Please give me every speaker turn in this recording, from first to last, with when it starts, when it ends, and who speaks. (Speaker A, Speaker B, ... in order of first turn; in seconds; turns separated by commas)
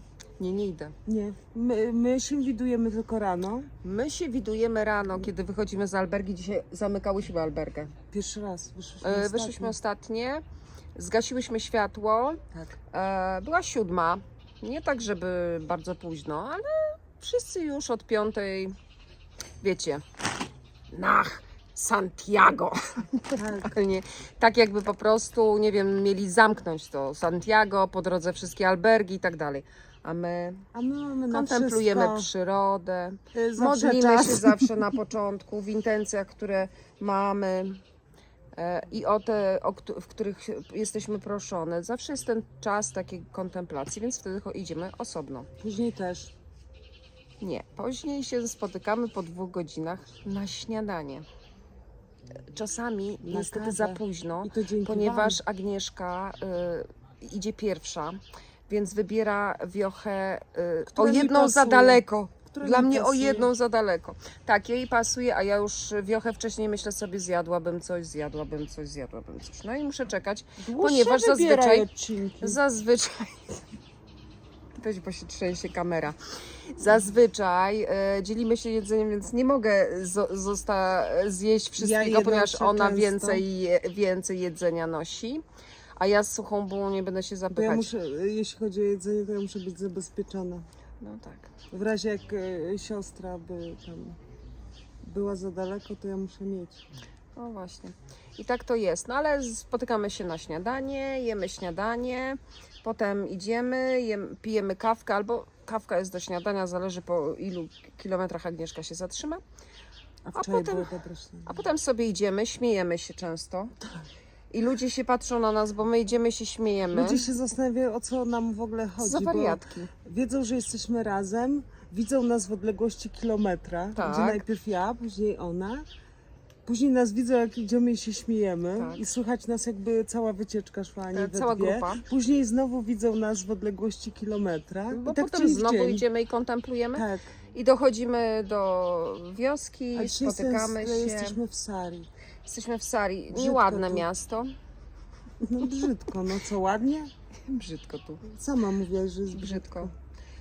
Speaker A: 0.4-0.9, Speaker B: 1.1-3.7, Speaker A: 3.8-7.9, Speaker B: 8.1-9.8, Speaker A: 9.0-10.4, Speaker A: 10.9-12.4, Speaker A: 12.9-18.8, Speaker A: 19.6-20.0, Speaker A: 20.9-30.7, Speaker B: 23.4-23.8, Speaker B: 30.7-32.3, Speaker A: 31.3-37.8, Speaker B: 33.3-34.7, Speaker A: 38.5-45.5, Speaker B: 45.6-46.3, Speaker A: 47.4-51.2, Speaker A: 52.5-71.9, Speaker B: 53.2-55.4, Speaker B: 60.9-63.5, Speaker B: 70.6-72.6, Speaker A: 72.4-73.6, Speaker A: 74.8-76.2, Speaker A: 76.7-85.4, Speaker B: 81.8-83.4, Speaker A: 86.0-87.9, Speaker B: 87.5-90.7, Speaker A: 91.0-91.5, Speaker B: 91.7-94.2, Speaker B: 95.0-96.8, Speaker A: 97.4-109.4, Speaker B: 110.3-111.6, Speaker A: 110.3-110.9, Speaker A: 111.5-113.8, Speaker A: 114.5-117.2, Speaker B: 116.9-125.8, Speaker A: 119.0-119.9, Speaker A: 124.0-124.4, Speaker B: 126.7-136.1, Speaker A: 128.8-129.0, Speaker A: 131.1-132.0, Speaker A: 134.9-141.4, Speaker B: 136.9-137.3, Speaker B: 139.9-142.1, Speaker A: 142.5-144.5, Speaker B: 143.3-144.1, Speaker B: 145.4-147.1, Speaker A: 147.5-148.2, Speaker B: 148.2-149.9, Speaker A: 149.3-149.9